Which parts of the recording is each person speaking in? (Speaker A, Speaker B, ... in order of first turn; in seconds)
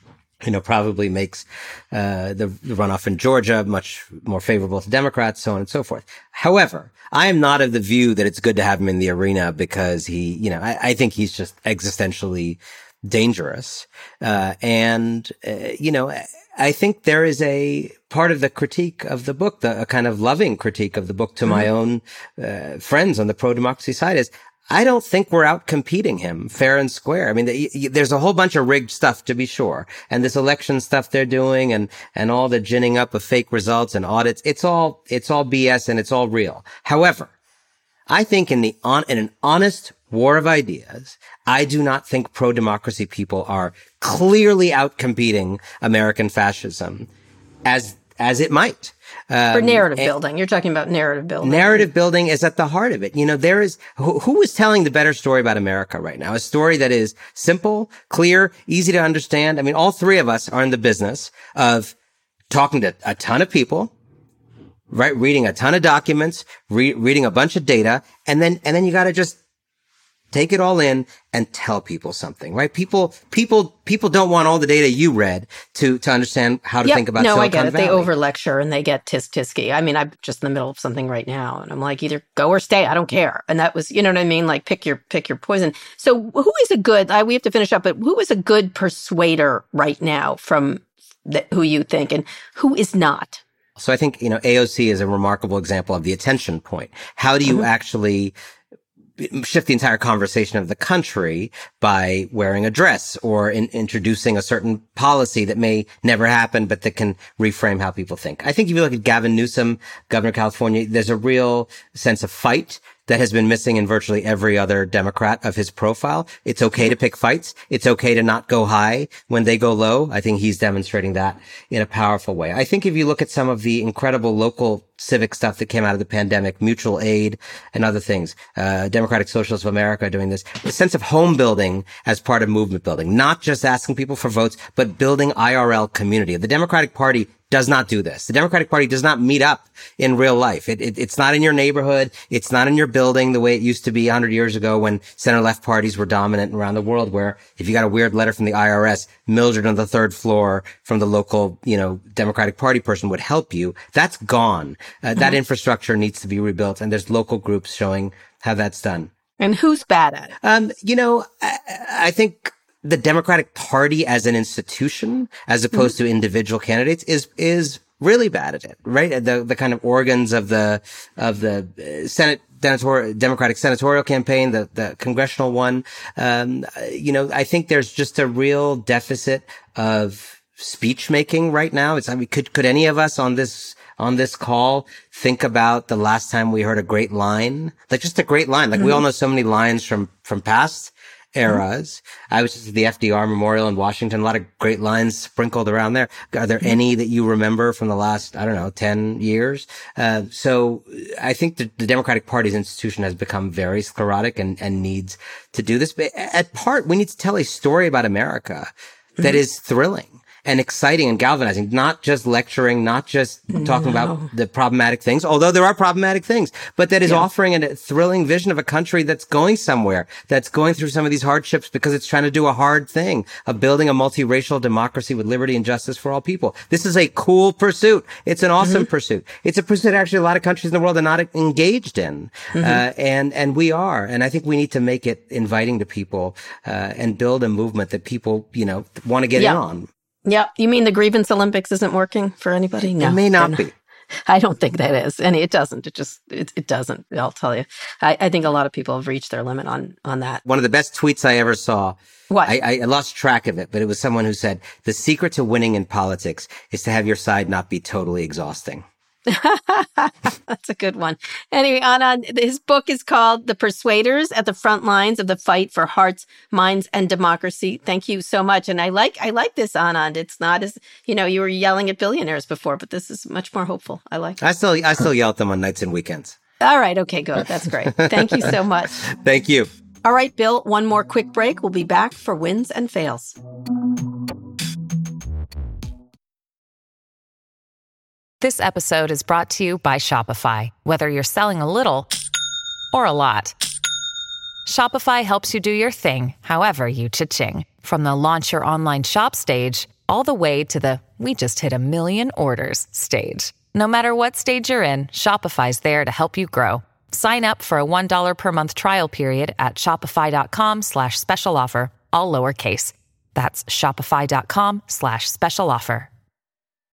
Speaker A: 0.4-37.3, 38.1-47.1, 47.7-50.1, 51.4-61.9, 62.5-63.9, 64.9-69.4, 70.3-78.1, 93.8-98.3, 99.2-159.1, 160.4-239.9, 242.8-243.7, 250.5-258.9, 274.4-276.4, 277.9-278.5, 279.0-279.7
Speaker B: 49.5-51.9, 76.8-93.4, 159.4-160.3, 188.8-189.0, 213.5-214.3, 228.6-228.9, 232.6-232.8, 240.3-243.6, 244.3-250.4, 252.3-252.6, 259.3-274.4, 276.6-279.0, 280.0-283.4
Speaker C: 288.4-292.1, 292.9-293.6, 294.7-316.1